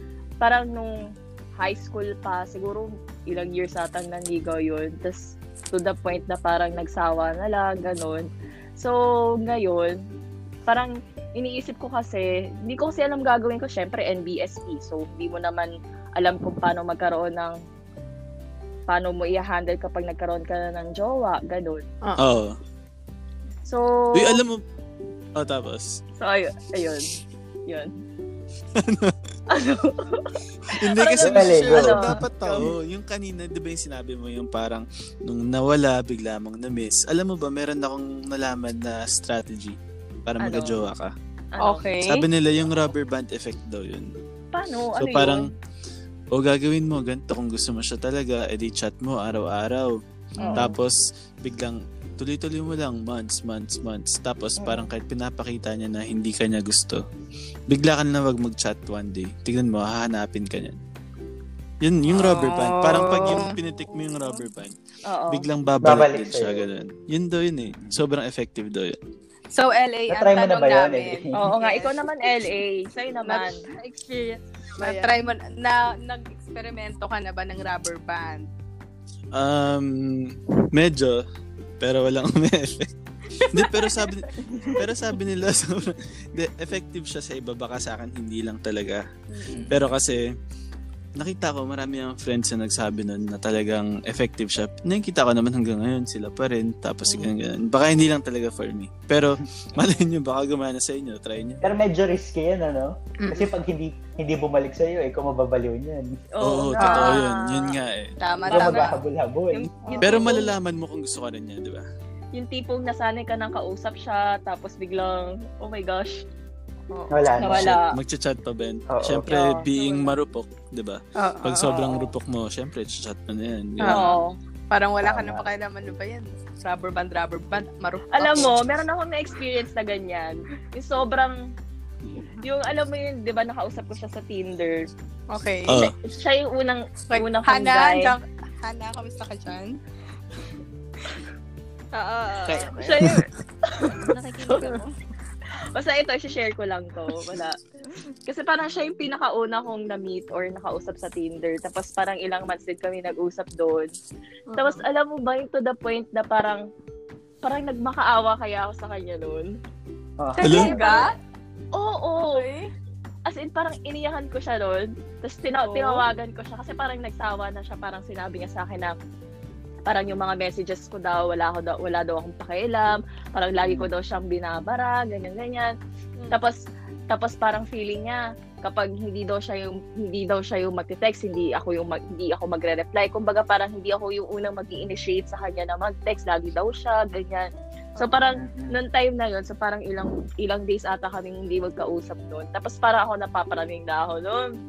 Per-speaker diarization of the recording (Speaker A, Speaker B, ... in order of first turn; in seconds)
Speaker A: 0.4-10.0, 10.7-17.6, 18.9-21.9, 23.7-24.4, 26.2-27.9, 29.5-32.7, 40.4-40.8, 41.5-41.9, 44.5-45.5, 50.4-50.8, 54.6-54.9, 65.1-65.5, 71.3-73.6, 106.4-107.8, 108.5-108.9, 109.5-110.5, 112.3-116.2, 117.4-117.9, 119.3-119.7, 121.6-122.1, 123.8-124.4, 128.1-131.4, 132.4-134.9, 136.0-138.1, 142.5-143.9, 144.5-144.8, 145.7-147.6, 148.3-153.9, 154.6-156.7, 157.4-159.5, 160.5-161.1, 161.7-162.4, 163.3-168.9, 169.9-175.7, 176.3-194.5
Speaker B: 22.2-22.6, 24.1-24.6, 25.4-26.0, 28.8-29.2, 30.7-41.1, 42.0-44.1, 45.0-45.5, 46.3-49.9, 50.5-57.0, 57.7-60.8, 61.8-64.7, 65.3-69.0, 79.3-81.2, 81.8-89.0, 89.7-90.2, 91.2-101.6, 106.4-108.2, 110.0-111.8, 117.5-124.2, 135.7-135.9, 160.4-160.8
Speaker C: 31.2-32.2, 65.8-66.7, 70.1-71.5, 101.6-106.1, 108.5-109.7, 117.1-117.8, 118.9-119.3, 125.0-125.5, 160.2-160.7, 173.6-173.9, 188.4-188.8
Speaker D: 41.6-42.3, 50.4-50.7, 62.1-63.6, 69.5-71.9, 73.2-73.5, 74.8-78.5, 83.4-84.1, 89.3-89.8, 103.2-103.5, 106.8-107.2, 108.2-109.0, 109.8-110.3, 116.9-117.4, 121.2-121.7, 123.8-128.7, 135.3-135.9, 137.1-139.8, 154.5-154.8, 160.4-161.2, 162.2-162.7, 165.6-166.0
Speaker E: 63.6-64.5, 73.7-75.2, 119.7-120.1, 141.9-143.1, 143.8-144.9, 188.0-188.3